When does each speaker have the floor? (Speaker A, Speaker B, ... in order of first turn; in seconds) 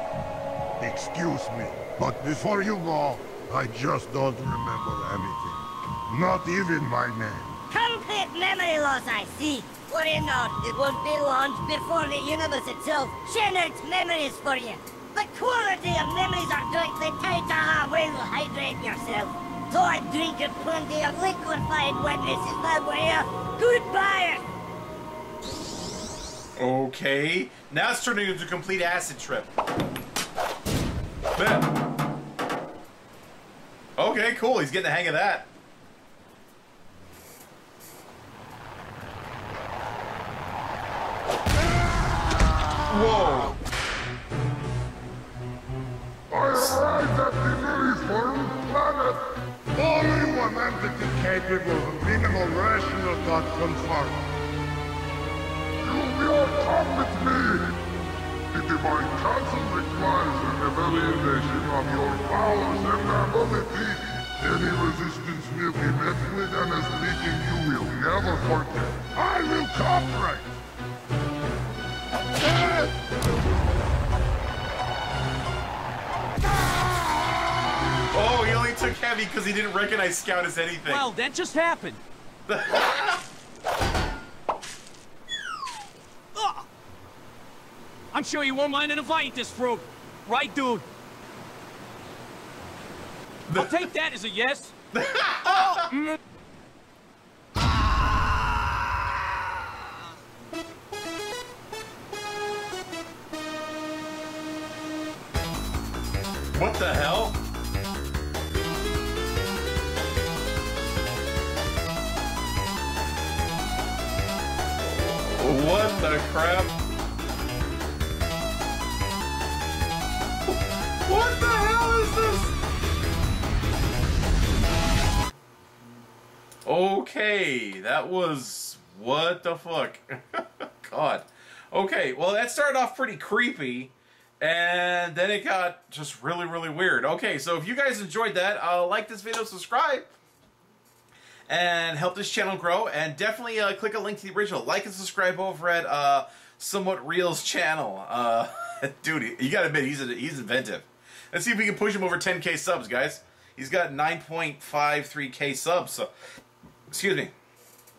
Speaker A: 0.8-7.5, 46.3-54.3, 55.8-57.8, 58.5-70.6, 72.5-72.8
Speaker B: 7.7-24.5
Speaker C: 26.6-29.5, 31.4-31.7, 34.0-35.5, 42.9-43.6, 78.1-81.1, 82.5-83.2, 93.5-93.9, 94.9-95.9, 106.5-107.4, 115.3-116.8, 120.5-122.5, 126.7-140.1, 141.5-156.1, 156.9-157.3
Speaker D: 80.9-82.0, 86.3-86.7, 88.1-90.8, 93.5-94.8, 95.5-96.2